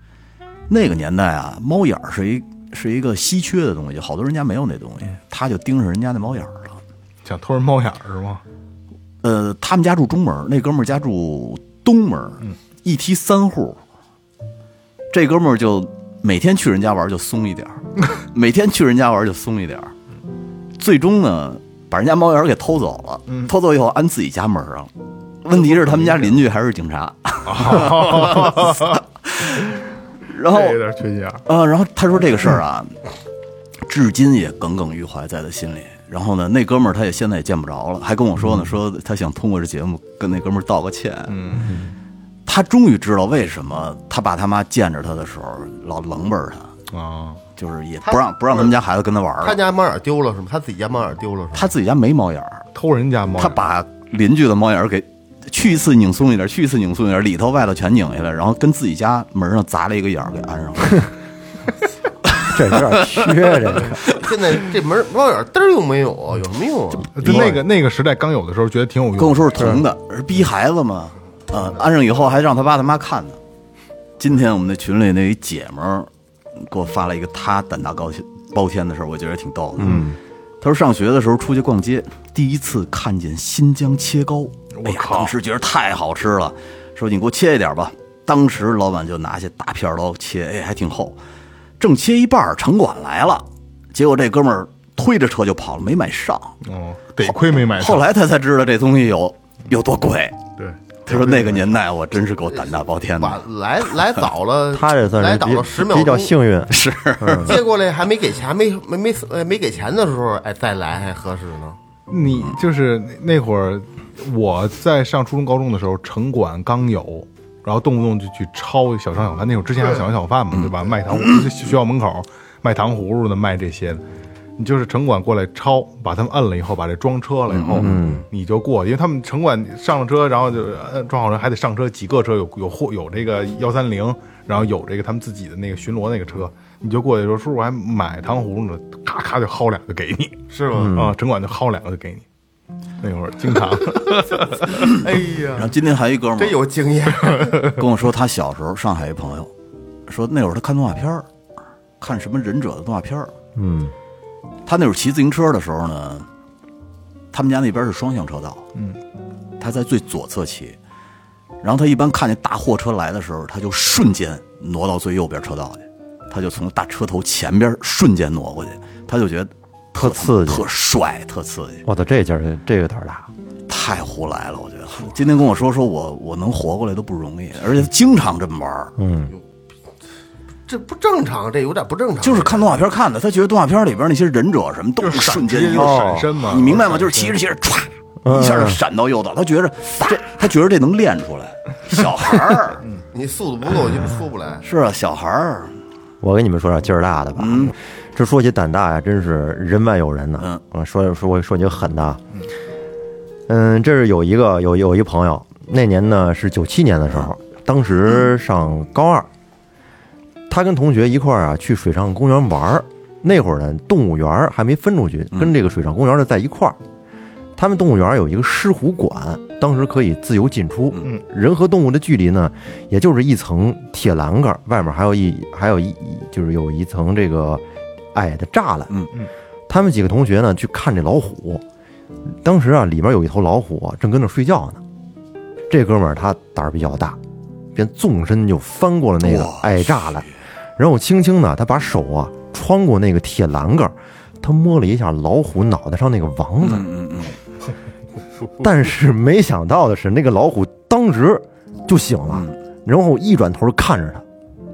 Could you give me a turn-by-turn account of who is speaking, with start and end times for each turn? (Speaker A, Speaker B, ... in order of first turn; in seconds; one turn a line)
Speaker A: 0.7-6.8
Speaker B: 7.2-8.4
Speaker A: 9.2-13.8
Speaker A: 15.1-19.9
Speaker A: 20.8-24.9
Speaker A: 25.4-30.8
Speaker B: 27.4-29.0
Speaker B: 30.4-31.4
Speaker A: 31.4-33.0
Speaker A: 33.9-41.4
Speaker B: 41.3-41.7
Speaker A: 42.5-46.7
Speaker B: 46.9-47.4
Speaker A: 47.5-49.6
Speaker C: 48.0-48.7
Speaker C: 49.4-51.7
Speaker A: 51.5-52.6
Speaker B: 52.7-53.6
Speaker A: 53.4-61.1
Speaker A: 62.3-64.2
Speaker D: 62.5-64.0
Speaker C: 64.1-67.1
Speaker B: 67.1-69.8
Speaker D: 67.2-67.5
Speaker A: 69.2-73.4
Speaker D: 69.6-69.8
Speaker A: 74.2-80.1
Speaker D: 79.8-80.2
Speaker B: 79.8-80.1
Speaker A: 80.6-91.2
Speaker B: 84.7-85.3
Speaker A: 91.8-96.6
Speaker B: 96.6-98.0
Speaker A: 97.2-100.4
Speaker B: 100.6-101.7
Speaker A: 101.0-103.4
Speaker C: 103.2-106.3
Speaker D: 104.7-107.6
Speaker A: 106.7-107.6
Speaker C: 107.4-111.8
Speaker B: 112.1-124.0
Speaker A: 112.3-112.5
Speaker B: 124.6-142.2
Speaker A: 127.5-127.9
Speaker D: 127.8-128.2
Speaker C: 127.9-128.2
Speaker C: 140.5-141.0
Speaker D: 140.7-141.1
Speaker B: 143.0-144.8
Speaker A: 144.7-145.0
Speaker C: 144.8-145.7
Speaker A: 145.5-146.6
Speaker C: 146.3-147.8
Speaker A: 147.6-149.5
Speaker A: 150.1-151.3
Speaker A: 152.0-153.3
Speaker D: 153.6-153.9
Speaker A: 154.7-156.3
Speaker A: 157.3-158.6
Speaker A: 159.6-160.8
Speaker A: 161.6-171.8
Speaker D: 169.9-170.7
Speaker D: 171.8-173.3
Speaker A: 173.7-178.9
Speaker D: 179.0-179.3
Speaker C: 180.7-182.7
Speaker A: 182.2-192.8
Speaker B: 185.0-187.3
Speaker D: 185.8-186.3
Speaker D: 188.2-188.8
Speaker C: 193.1-194.6
Speaker A: 194.6-195.7
Speaker D: 196.2-202.2
Speaker A: 197.4-197.7
Speaker D: 203.5-209.3
Speaker D: 210.5-216.8
Speaker D: 217.6-228.9
Speaker D: 229.7-231.6
Speaker D: 232.3-234.8
Speaker D: 235.7-237.2
Speaker D: 237.7-246.9
Speaker A: 239.2-240.3
Speaker A: 246.6-247.3
Speaker D: 248.6-254.2